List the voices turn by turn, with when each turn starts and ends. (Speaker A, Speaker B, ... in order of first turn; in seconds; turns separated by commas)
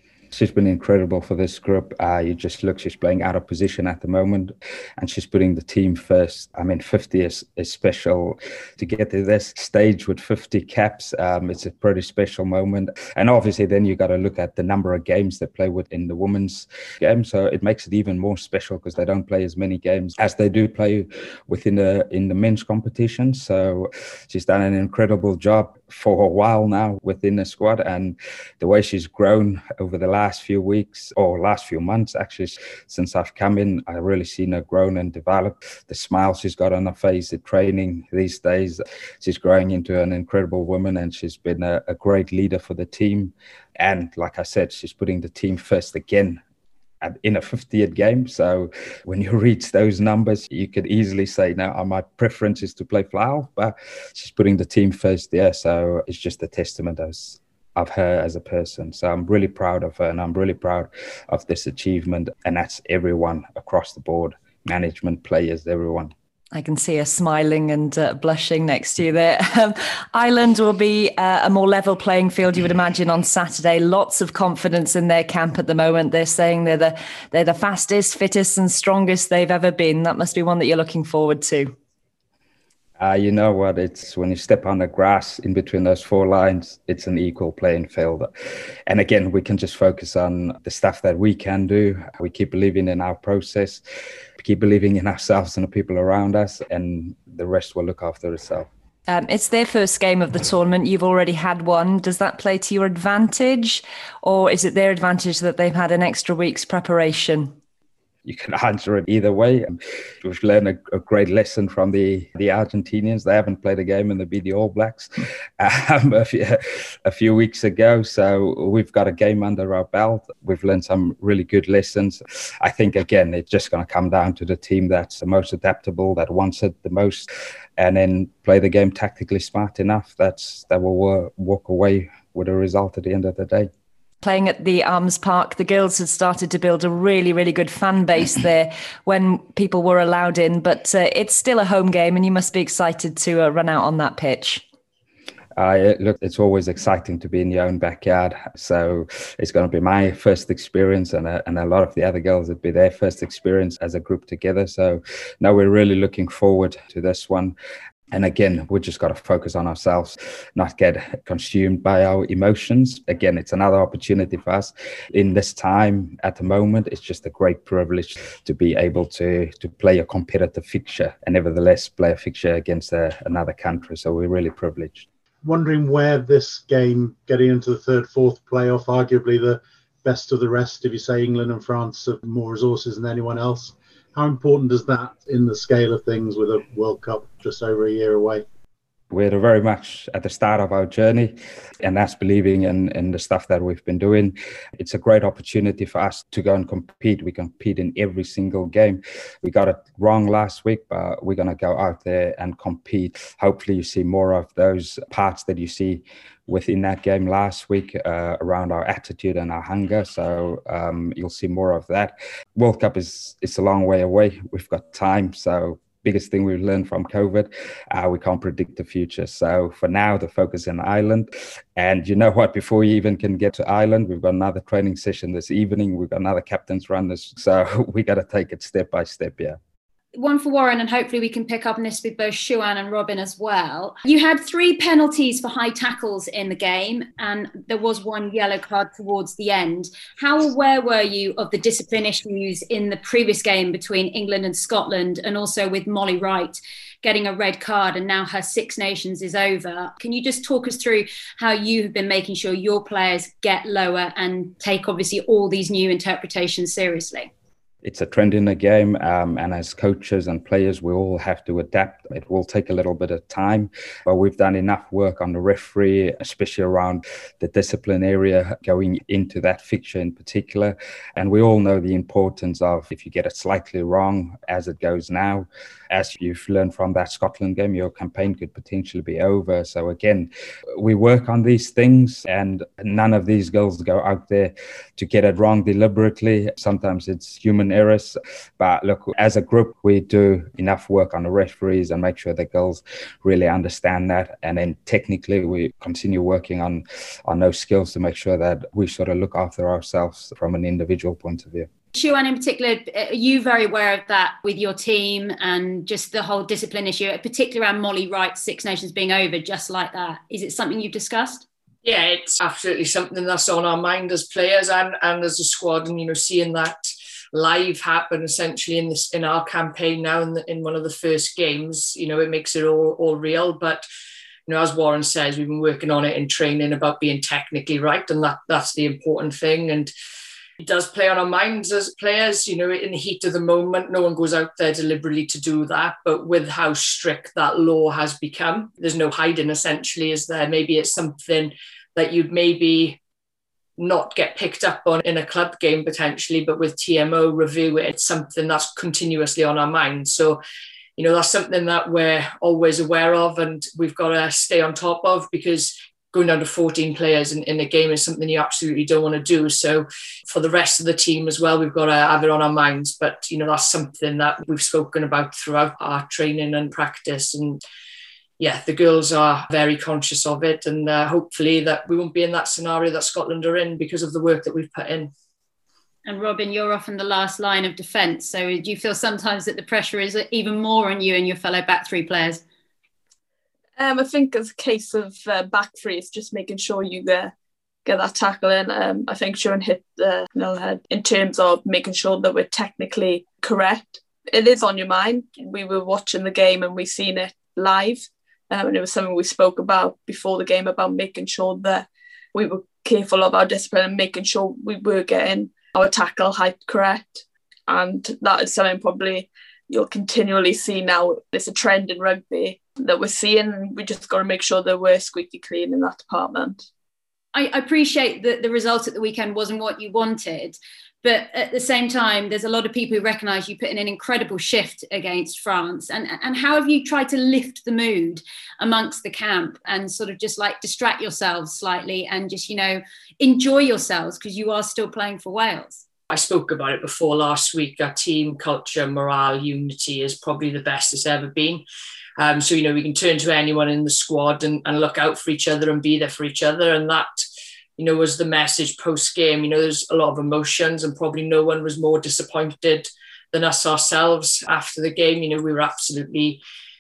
Speaker A: 0.3-46.4, Speaker A: 47.0-66.1, Speaker B: 66.5-81.7, Speaker A: 83.0-88.3, Speaker A: 88.9-93.8, Speaker A: 94.4-98.7, Speaker B: 99.1-107.5, Speaker A: 108.2-133.7, Speaker B: 134.2-144.6, Speaker A: 145.6-157.6, Speaker A: 158.1-175.1, Speaker C: 175.4-188.4, Speaker A: 189.1-229.6, Speaker D: 230.1-257.3, Speaker A: 257.8-301.7, Speaker D: 301.9-311.4, Speaker E: 311.9-323.9, Speaker E: 324.5-329.9, Speaker E: 330.6-343.0, Speaker E: 343.8-350.4, Speaker E: 351.0-367.6, Speaker E: 368.4-375.1, Speaker D: 376.1-382.4, Speaker F: 383.8-387.3, Speaker F: 387.9-416.6, Speaker D: 417.3-435.8, Speaker E: 436.1-441.6, Speaker E: 442.2-447.1, Speaker E: 447.8-456.4